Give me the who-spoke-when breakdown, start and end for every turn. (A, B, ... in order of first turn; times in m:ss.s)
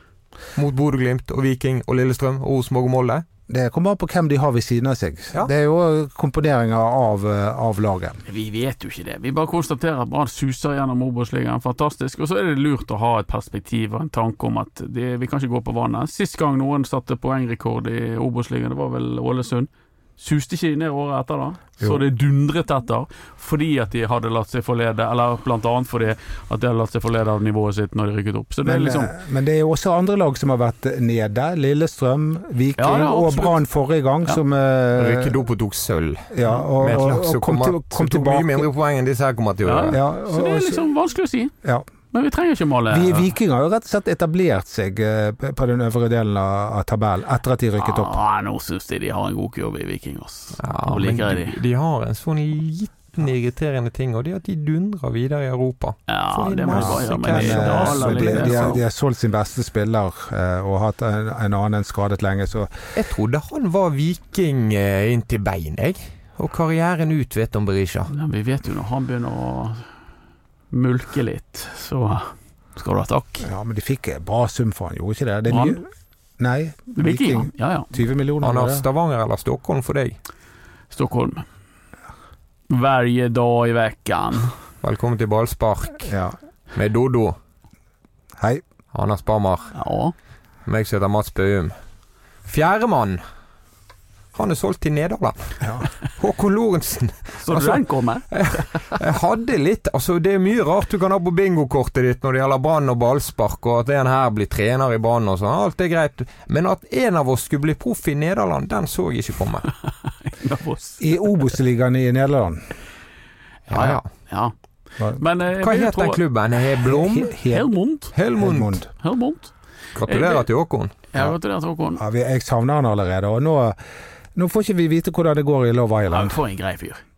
0:00.6-0:03.2 A
0:03.5-0:08.2 B
0:08.3-0:29.1 C
0:21.8-0:22.0 B
0:28.6-0:35.3 B
0:32.8-0:33.6 C
0:35.0-0:40.0 A
0:36.3-0:38.7 B
0:39.6-0:41.5 C
0:39.9-0:40.8 B
0:42.1-0:43.3 C
0:42.9-0:48.1 B
0:47.8-0:51.6 C
0:50.6-0:58.8 A
0:56.1-0:58.8 C
0:56.7-1:02.7 B
1:03.0-1:08.1 A
1:08.1-1:09.9 C
1:10.7-1:13.5 C
1:13.4-1:15.9 B
1:15.5-1:15.8 C
1:16.4-1:18.8 B
1:17.0-1:17.9 C
1:18.4-1:20.2 A
1:20.9-1:21.5 C
1:22.7-1:24.5 C
1:24.8-1:26.1 A
1:26.1-1:26.4 B
1:26.7-1:27.4 A
1:28.4-1:28.6 B
1:28.9-1:29.7 A
1:29.7-1:30.2 C
1:30.7-1:31.8 A
1:32.5-1:33.2 A
1:34.3-1:49.7 A
1:37.4-1:38.7 C
1:50.0-1:51.0 C
1:51.0-1:52.7 B
1:53.7-1:54.1 A
1:53.7-1:54.5 C
1:55.1-1:56.2 C
1:55.6-1:57.4 A
1:56.8-1:57.7 B
1:57.5-1:58.1 C
1:58.1-1:58.8 A
1:58.4-1:58.9 B
1:59.0-1:59.5 C
2:00.0-2:00.9 A
2:00.1-2:00.5 C
2:01.1-2:02.0 C
2:02.0-2:03.8 B
2:04.4-2:06.4 B
2:06.1-2:07.0 C